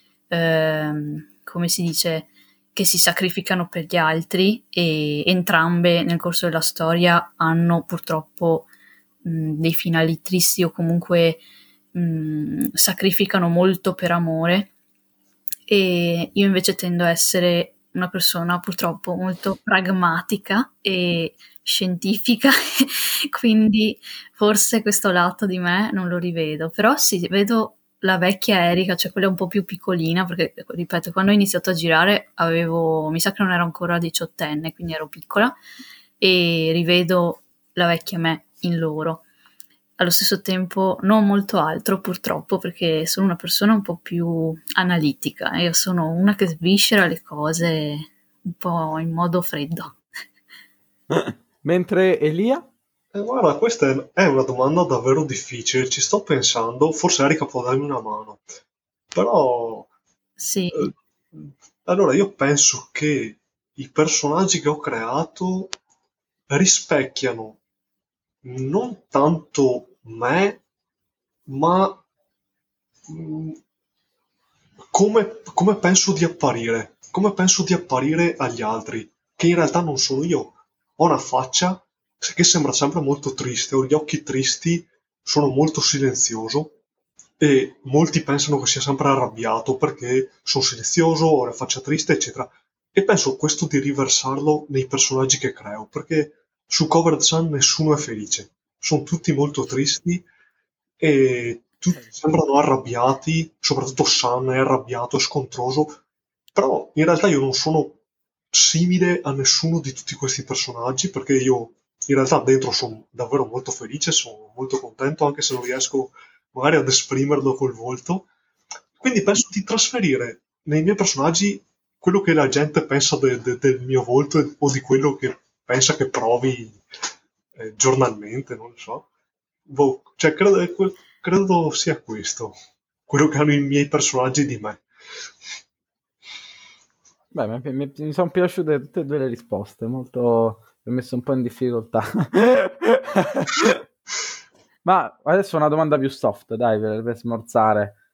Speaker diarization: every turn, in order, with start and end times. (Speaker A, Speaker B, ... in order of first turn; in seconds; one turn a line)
Speaker A: 0.3-8.7
Speaker A: 9.2-11.4
Speaker A: 11.9-14.7
Speaker A: 15.7-35.5
Speaker A: 36.2-39.2
Speaker A: 40.0-50.0
Speaker B: 51.1-52.7
Speaker C: 53.1-58.4
Speaker C: 59.1-59.9
Speaker A: 60.4-60.9
Speaker C: 60.8-65.8
Speaker C: 66.5-67.6
Speaker C: 68.4-70.6
Speaker C: 71.5-72.0
Speaker C: 73.1-73.6
Speaker C: 74.9-86.8
Speaker C: 87.4-100.3
Speaker C: 101.0-106.0
Speaker C: 106.5-108.0
Speaker C: 108.5-118.3
Speaker C: 119.0-126.8
Speaker C: 127.5-129.1
Speaker C: 129.7-132.5
Speaker C: 133.1-134.8
Speaker B: 137.3-143.8
Speaker B: 144.8-147.9